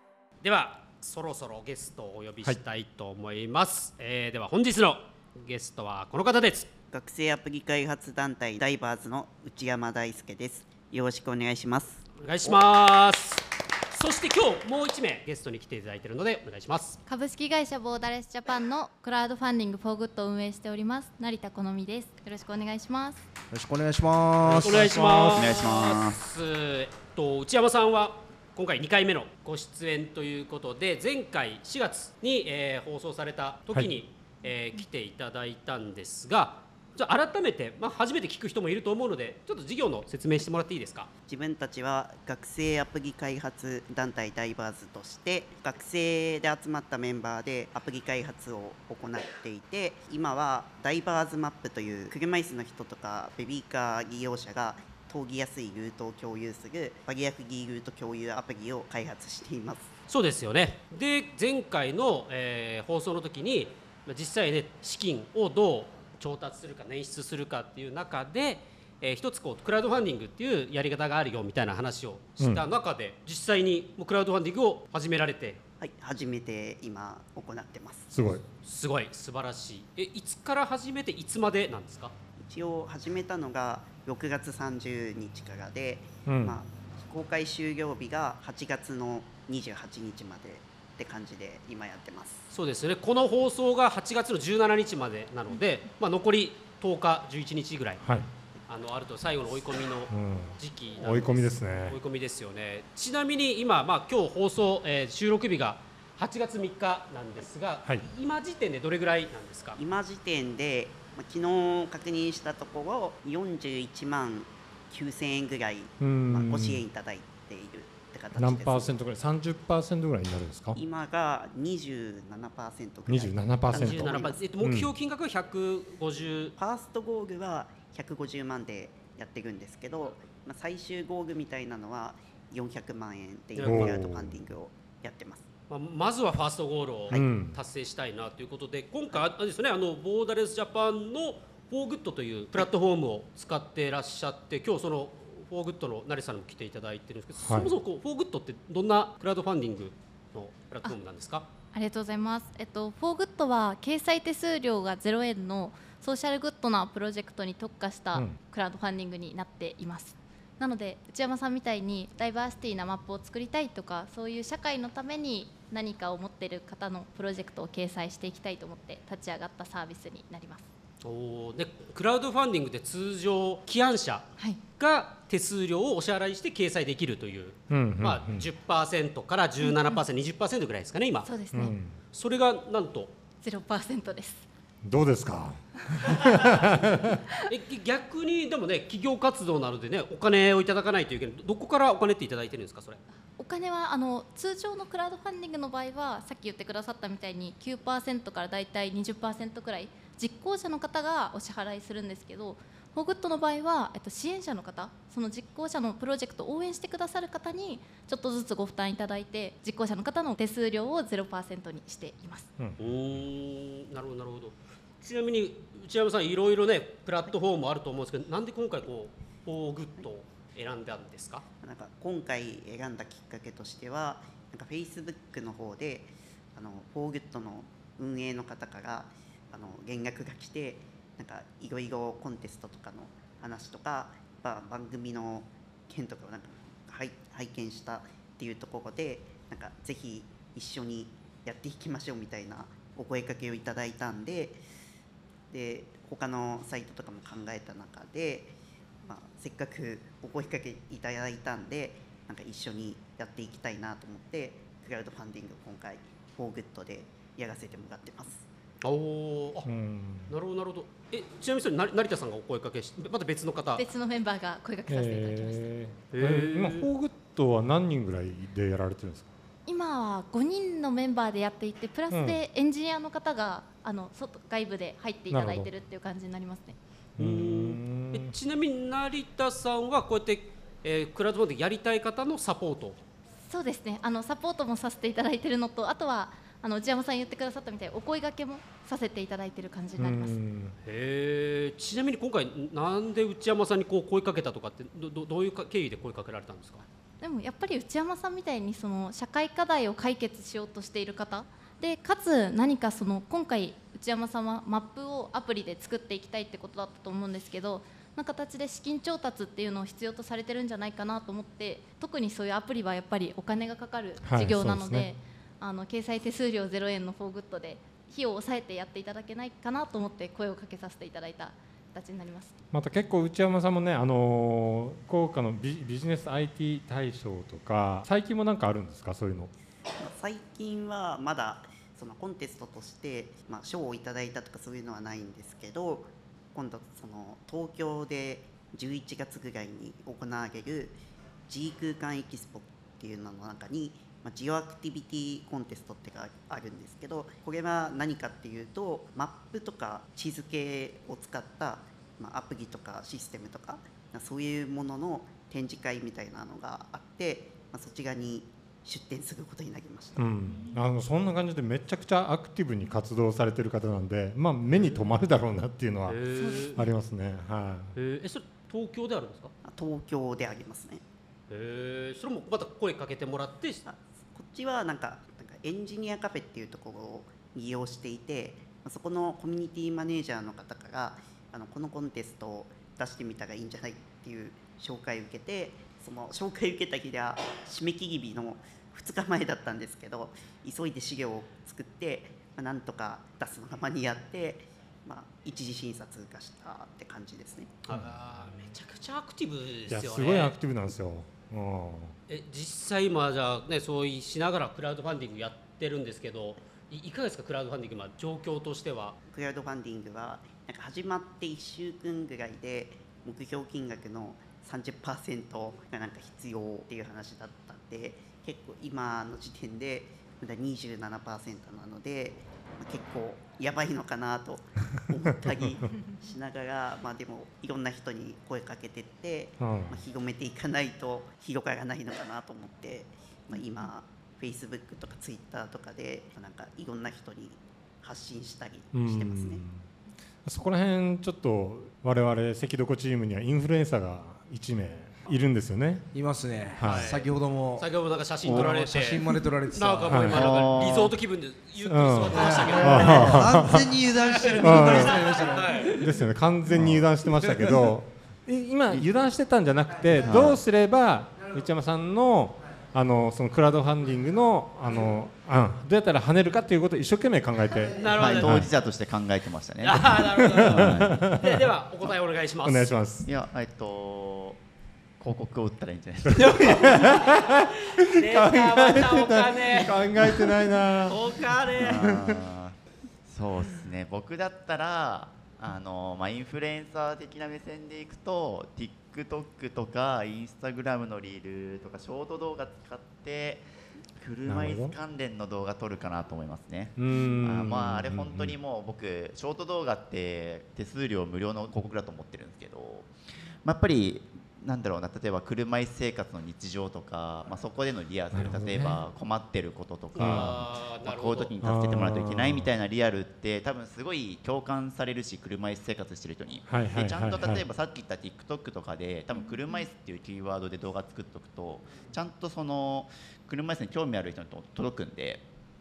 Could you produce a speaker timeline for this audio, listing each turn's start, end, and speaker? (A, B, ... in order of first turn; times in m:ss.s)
0:00.4-0:06.7 A
0:06.9-0:12.6 B
0:12.2-0:17.0 A
0:17.1-0:23.2 C
0:23.5-0:25.2 D
0:24.4-0:41.1 A
0:25.0-0:25.3 E
0:25.3-0:26.2 F
0:41.3-0:59.9 B
1:00.1-1:15.6 A
1:12.4-1:12.6 E
1:15.8-1:18.1 B
1:18.1-1:18.4 E
1:18.6-1:22.1 A
1:22.4-1:32.4 B
1:26.2-1:26.6 E
1:32.5-1:38.0 A
1:38.0-1:38.3 E
1:38.7-1:49.8 A
1:40.1-1:42.0 E
1:49.8-1:59.0 B
1:56.0-1:56.8 E
1:58.4-2:00.8 E
2:00.7-2:04.4 B
2:03.1-2:04.9 E
2:03.7-2:06.6 A
2:06.6-2:15.5 B
2:13.5-2:14.0 A
2:13.6-2:14.4 E
2:15.7-2:31.5 A
2:17.1-2:17.6 E
2:27.4-2:27.7 E
2:31.7-2:50.7 C
2:51.0-3:01.3 A
2:57.7-2:58.5 E
2:59.6-3:00.0 C
3:01.2-3:01.8 C
3:01.5-3:01.9 E
3:02.1-3:03.1 A
3:03.4-3:04.5 C
3:04.8-3:07.2 E
3:07.5-3:13.0 A
3:13.4-3:32.5 C
3:32.8-3:41.4 A
3:41.6-4:04.6 B
4:05.5-4:18.4 B
4:18.8-4:19.7 A
4:19.6-4:20.3 E
4:20.3-4:23.8 A
4:23.8-4:25.7 C
4:24.9-4:29.3 E
4:26.1-4:26.9 A
4:29.6-4:36.8 C
4:32.1-4:32.4 E
4:35.3-4:35.7 E
4:37.2-4:38.3 E
4:37.2-4:43.0 A
4:43.5-4:50.4 C
4:50.0-4:50.8 E
4:50.8-4:56.8 A
4:57.2-5:22.5 C
5:14.2-5:15.1 E
5:22.7-5:29.5 E
5:30.0-6:00.3 B
6:00.2-6:07.9 E
6:04.7-6:05.0 A
6:06.1-6:06.8 A
6:06.4-6:06.7 C
6:08.0-6:09.5 A
6:09.6-6:11.0 B
6:11.5-6:13.8 A
6:13.8-6:37.7 B
6:37.8-6:40.5 A
6:39.9-6:42.1 E
6:42.3-6:49.2 A
6:49.3-7:19.6 B
7:09.6-7:10.0 E
7:18.9-7:19.8 E
7:20.4-7:26.1 E
7:26.1-7:27.9 D
7:26.8-7:27.1 E
7:26.8-7:33.5 A
7:28.4-7:30.4 D
7:30.1-7:30.4 E
7:30.3-7:31.1 F
7:31.8-7:33.9 E
7:32.3-7:36.0 D
7:34.3-7:36.1 A
7:34.6-7:35.2 E
7:35.9-7:48.7 E
7:36.7-7:37.8 D
7:40.2-7:40.6 F
7:48.0-7:48.7 A
7:48.1-7:51.3 F
7:49.8-7:52.9 A
7:50.4-7:51.7 E
7:52.6-7:53.3 E
7:53.2-7:54.6 F
7:55.2-7:57.1 F
7:56.3-7:57.4 A
7:56.3-8:01.2 E
7:58.0-8:02.0 A
8:01.8-8:13.6 F
8:14.2-8:23.1 F
8:14.5-8:14.9 E
8:17.0-8:18.5 E
8:17.1-8:17.4 C
8:23.6-8:45.4 F
8:28.3-8:29.0 E
8:30.1-8:31.5 A
8:30.2-8:30.5 E
8:31.6-8:32.7 E
8:36.7-8:37.6 E